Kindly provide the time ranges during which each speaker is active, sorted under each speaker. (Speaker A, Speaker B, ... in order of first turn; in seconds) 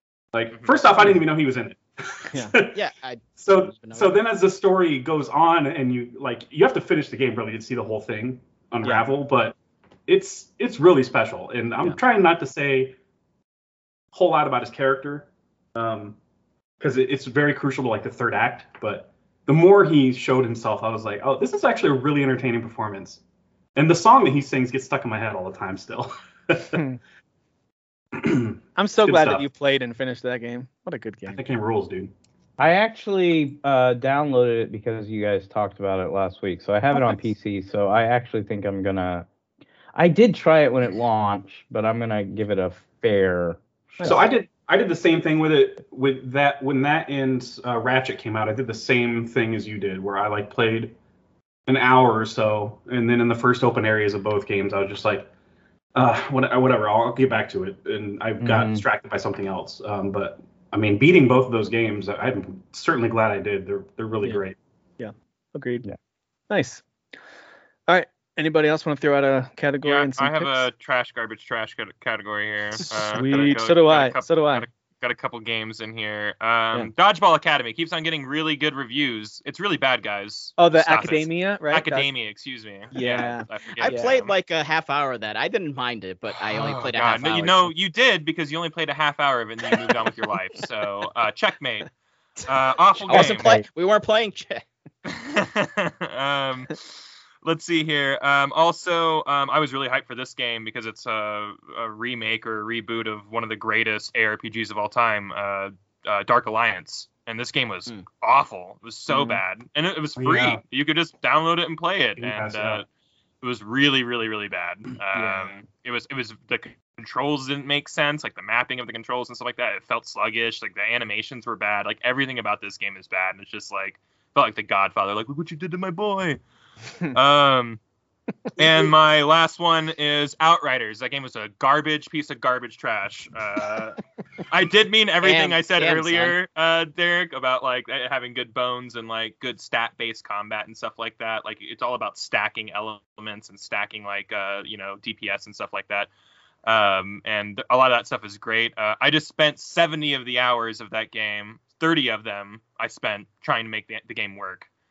Speaker A: 0.3-2.9, 3.4-9.6, 10.1-12.9, 14.1-16.2, 16.8-23.2, 23.7-26.8, 28.1-29.4, 31.3-32.1, 44.0-50.9, 51.7-55.3, 55.9-64.5, 110.2-110.6, 112.2-112.8
Speaker B: 2.7-4.2, 83.8-87.7, 93.0-94.6, 135.2-136.3
Speaker C: 28.8-31.4, 65.0-65.8, 66.5-66.8, 67.9-70.7, 72.8-74.7, 80.6-82.1, 82.9-84.2, 109.1-109.4
Speaker D: 32.6-39.3, 39.9-44.1, 58.4-58.8
Speaker E: 69.8-84.3, 86.5-93.5, 95.0-112.8, 113.4-126.4, 127.1-127.8, 128.6-146.1, 146.6-154.7